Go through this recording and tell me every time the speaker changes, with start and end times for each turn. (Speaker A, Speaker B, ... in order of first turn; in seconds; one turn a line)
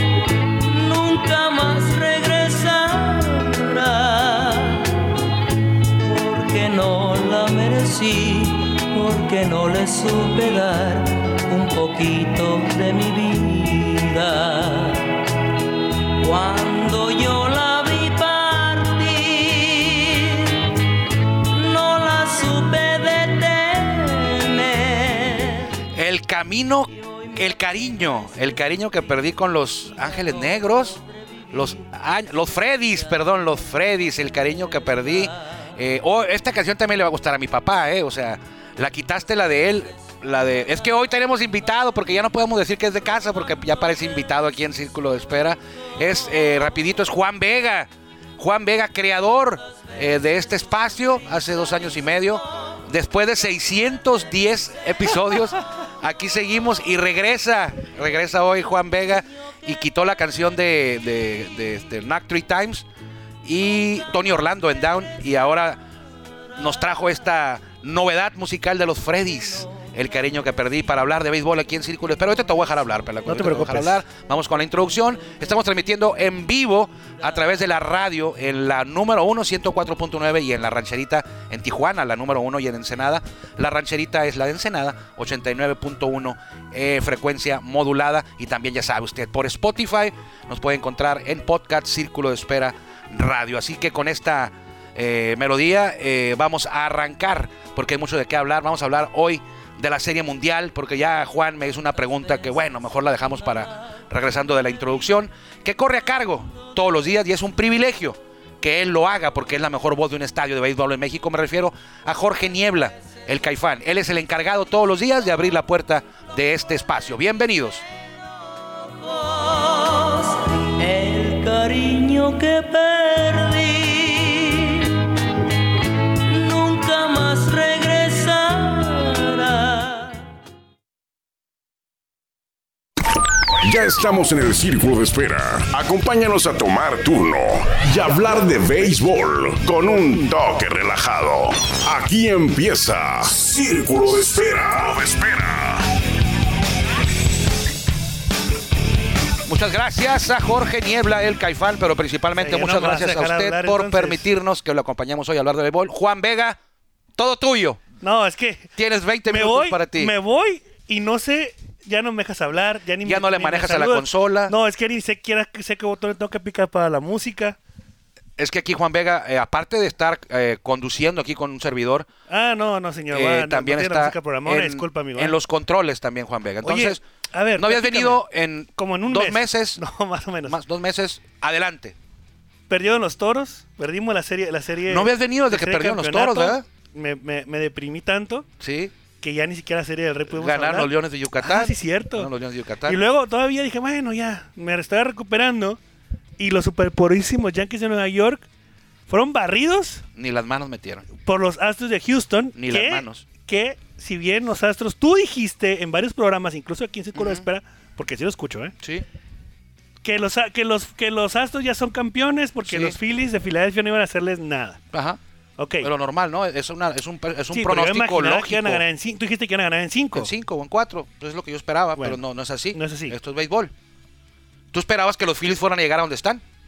Speaker A: 0.5-5.1
Speaker A: 5.9-15.3
Speaker A: 16.2-20.8
Speaker A: 21.3-25.7
Speaker B: 25.9-31.0
Speaker B: 31.5-62.9
Speaker B: 63.4-65.8
Speaker B: 66.5-117.8
Speaker C: 73.2-74.0
Speaker A: 118.6-125.1
Speaker A: 126.2-130.2
Speaker D: 133.6-145.9
Speaker B: 149.4-156.6
Speaker C: 152.3-154.3
Speaker B: 157.2-157.8
Speaker C: 158.0-158.7
Speaker B: 158.8-160.1
Speaker C: 159.2-167.6
Speaker B: 163.0-164.5
Speaker B: 168.4-172.1
Speaker C: 172.3-175.4
Speaker B: 173.1-177.0
Speaker C: 176.6-178.2
Speaker B: 177.6-179.8
Speaker C: 178.8-180.6
Speaker B: 180.4-181.9
Speaker C: 182.7-188.5
Speaker B: 184.9-186.6
Speaker B: 188.6-188.9
Speaker C: 189.2-192.3
Speaker B: 190.3-193.0
Speaker C: 192.8-195.8
Speaker C: 196.4-198.4
Speaker C: 199.1-200.0
Speaker B: 200.1-201.1
Speaker C: 201.2-208.7
Speaker B: 202.5-203.2
Speaker B: 207.1-207.4
Speaker C: 210.0-214.8
Speaker B: 212.7-212.9
Speaker B: 214.9-215.2
Speaker C: 215.6-215.9
Speaker B: 215.8-218.8
Speaker C: 217.5-220.3
Speaker B: 220.1-223.7
Speaker C: 222.7-223.1
Speaker B: 224.7-226.4